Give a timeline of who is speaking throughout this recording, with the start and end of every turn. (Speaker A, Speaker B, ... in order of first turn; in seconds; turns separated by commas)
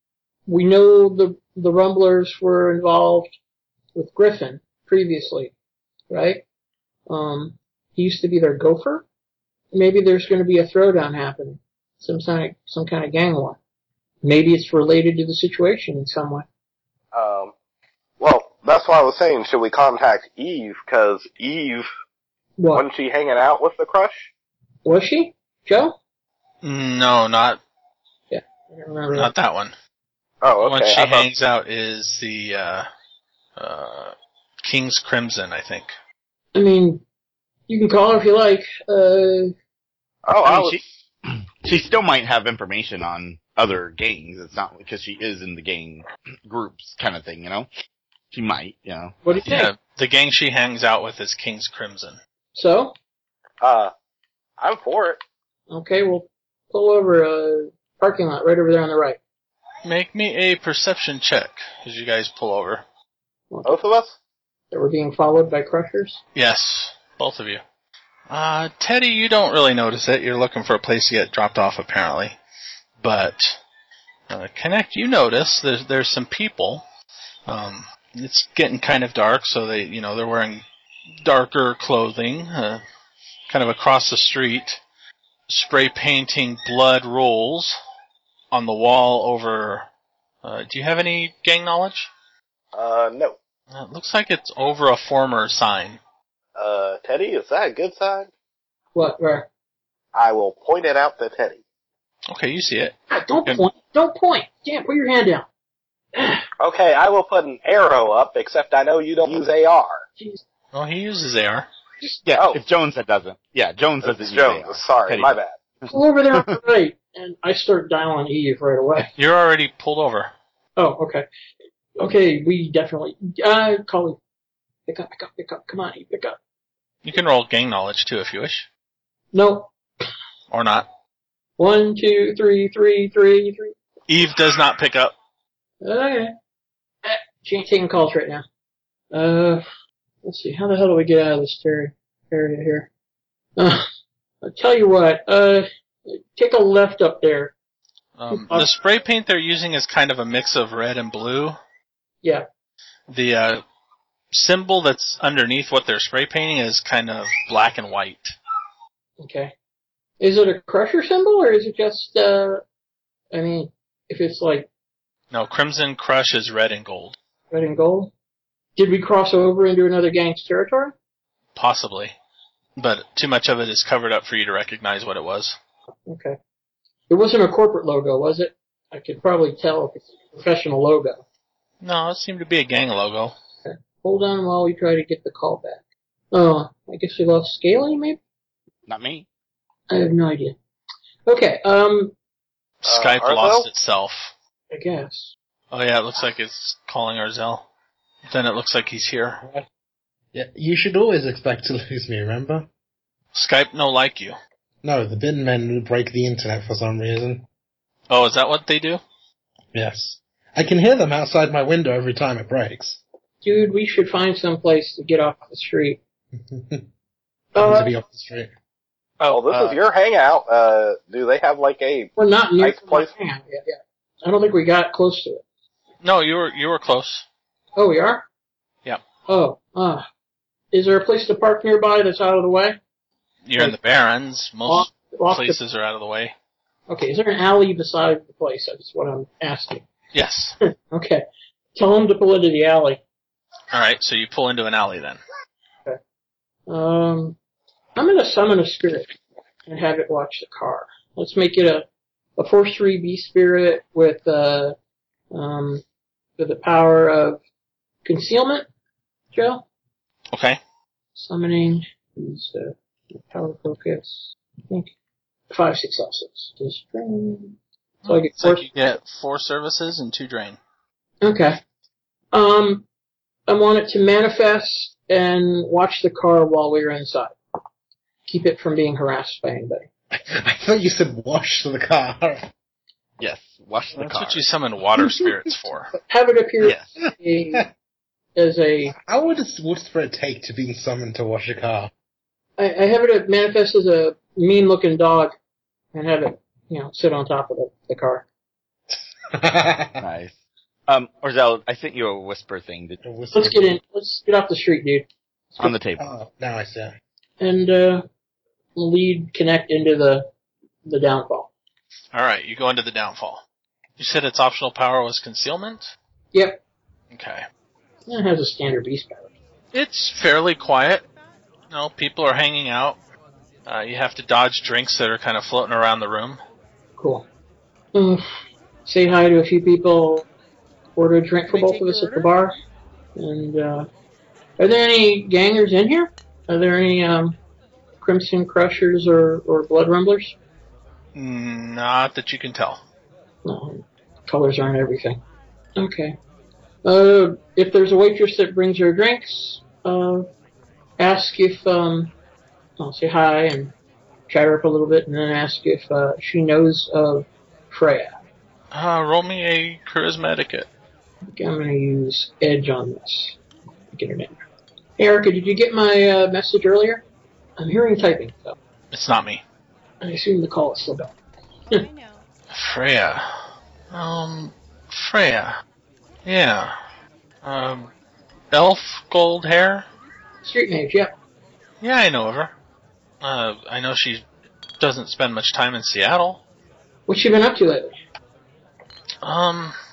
Speaker A: 0.5-3.3, Speaker A: 4.0-5.5, Speaker A: 6.1-6.4, Speaker A: 7.1-9.1, Speaker A: 9.7-13.6, Speaker A: 14.2-16.5, Speaker B: 17.1-17.5, Speaker B: 18.2-21.9, Speaker A: 22.6-22.9, Speaker B: 22.7-24.3, Speaker A: 24.9-26.0, Speaker C: 26.6-27.6, Speaker A: 28.3-29.3, Speaker C: 29.1-29.7, Speaker B: 30.4-31.3, Speaker C: 30.6-32.9, Speaker C: 33.6-36.0, Speaker A: 36.5-37.0, Speaker A: 37.7-39.5, Speaker B: 40.3-40.8, Speaker D: 40.4-47.7, Speaker D: 48.3-49.4, Speaker A: 49.2-49.7, Speaker C: 49.5-52.2, Speaker A: 52.5-52.9, Speaker B: 53.6-53.9, Speaker B: 54.6-55.2, Speaker A: 55.7-59.2, Speaker C: 59.9-62.9, Speaker A: 63.5-63.8, Speaker B: 63.6-64.2, Speaker A: 64.7-66.2, Speaker C: 66.3-67.6, Speaker C: 68.3-72.4, Speaker C: 73.0-73.6, Speaker C: 74.3-76.8, Speaker C: 77.5-80.6, Speaker C: 81.2-82.8, Speaker C: 83.5-84.8, Speaker C: 85.5-87.8, Speaker C: 88.5-89.9, Speaker C: 90.4-92.1, Speaker B: 92.7-93.4, Speaker C: 93.7-96.0, Speaker B: 96.6-98.3, Speaker A: 99.0-99.5, Speaker B: 100.1-101.6, Speaker C: 102.3-103.6, Speaker A: 103.1-105.5, Speaker A: 106.2-106.4, Speaker B: 106.6-110.1, Speaker C: 110.7-111.7, Speaker D: 112.2-115.3, Speaker B: 112.3-112.6, Speaker B: 114.0-115.6, Speaker D: 115.9-116.5, Speaker A: 115.9-119.1, Speaker C: 119.2-120.3, Speaker A: 120.8-121.2, Speaker A: 122.0-124.2, Speaker A: 124.9-126.4, Speaker C: 127.0-128.7, Speaker A: 129.3-129.7, Speaker C: 130.5-130.9, Speaker A: 131.6-133.8, Speaker C: 134.1-135.1, Speaker A: 135.8-136.3, Speaker A: 137.0-138.4, Speaker A: 139.1-139.6, Speaker A: 140.2-142.9, Speaker A: 143.6-143.8, Speaker A: 144.4-147.5, Speaker C: 148.2-151.6, Speaker A: 148.3-148.7, Speaker C: 153.1-153.6, Speaker C: 154.3-158.3, Speaker A: 159.2-159.5, Speaker A: 160.2-162.6, Speaker A: 163.3-164.7, Speaker C: 165.3-167.2, Speaker A: 167.5-168.1, Speaker A: 168.8-170.9, Speaker C: 171.6-172.2, Speaker C: 172.8-175.6, Speaker A: 176.1-176.4, Speaker A: 177.1-181.2, Speaker C: 181.8-183.3, Speaker A: 183.6-188.2, Speaker D: 188.9-189.3, Speaker A: 189.9-190.6, Speaker A: 191.3-192.1, Speaker C: 192.8-194.3, Speaker B: 192.9-193.7, Speaker A: 194.7-195.3, Speaker C: 195.7-197.7, Speaker C: 198.3-199.4, Speaker E: 200.3-202.7, Speaker C: 203.3-204.3, Speaker E: 204.8-207.5, Speaker C: 208.1-209.0, Speaker E: 209.7-213.0, Speaker A: 213.4-216.0, Speaker E: 216.4-216.8, Speaker A: 217.6-217.9, Speaker E: 217.6-218.5, Speaker C: 219.2-219.8, Speaker B: 219.3-223.1, Speaker A: 222.2-225.4, Speaker C: 226.0-227.3, Speaker A: 227.8-228.3, Speaker A: 229.3-230.0, Speaker A: 230.7-232.8, Speaker C: 233.4-236.3, Speaker A: 234.7-235.6, Speaker A: 236.9-239.9, Speaker C: 240.1-240.6, Speaker A: 240.9-241.2, Speaker A: 241.8-243.0, Speaker C: 243.7-245.2, Speaker A: 246.7-247.4, Speaker A: 248.0-249.1, Speaker A: 249.7-251.9, Speaker A: 252.4-254.8, Speaker A: 255.3-255.8, Speaker A: 256.4-257.4, Speaker A: 258.0-258.7, Speaker A: 259.3-259.6, Speaker C: 260.3-260.6, Speaker A: 261.2-264.9, Speaker A: 265.5-268.7, Speaker C: 268.4-270.6, Speaker A: 271.2-271.6, Speaker A: 272.3-272.9, Speaker A: 273.5-277.4, Speaker A: 278.3-279.9, Speaker E: 280.1-282.5, Speaker D: 283.2-284.4, Speaker C: 283.9-285.9, Speaker A: 286.1-287.7, Speaker D: 286.6-287.1, Speaker A: 288.4-288.9, Speaker E: 289.1-291.9, Speaker A: 292.6-295.3, Speaker A: 295.9-298.3, Speaker E: 298.9-300.0, Speaker D: 300.0-303.0, Speaker E: 303.0-303.8, Speaker A: 303.3-305.1, Speaker D: 305.6-306.0, Speaker E: 305.6-306.9, Speaker A: 307.4-308.0, Speaker A: 308.8-310.3, Speaker A: 310.9-311.5, Speaker C: 312.1-313.4, Speaker C: 314.0-315.9, Speaker A: 316.3-316.6, Speaker C: 317.1-317.4, Speaker A: 318.1-319.3, Speaker C: 319.7-321.1, Speaker C: 321.7-323.0, Speaker C: 323.7-326.4, Speaker A: 327.0-327.3, Speaker A: 327.9-328.2, Speaker A: 328.9-330.3, Speaker A: 331.0-332.5, Speaker D: 331.5-332.3, Speaker A: 333.2-333.9, Speaker A: 334.6-337.4, Speaker A: 338.0-340.4, Speaker C: 341.1-342.8, Speaker A: 343.4-345.2, Speaker A: 345.8-346.2, Speaker A: 346.9-350.3, Speaker A: 351.0-352.1, Speaker A: 352.8-353.7, Speaker A: 354.3-358.1, Speaker C: 358.7-360.7, Speaker A: 361.3-363.4, Speaker A: 363.9-364.4, Speaker A: 365.0-367.0, Speaker A: 367.6-368.6, Speaker C: 368.9-369.4, Speaker A: 370.0-371.1, Speaker C: 372.5-373.3, Speaker C: 373.9-375.5, Speaker C: 376.2-376.7, Speaker C: 377.4-377.9, Speaker C: 378.5-379.9, Speaker A: 380.4-381.1, Speaker C: 381.8-382.5, Speaker C: 383.2-384.2, Speaker C: 384.8-386.4, Speaker A: 387.1-387.9, Speaker C: 389.2-389.8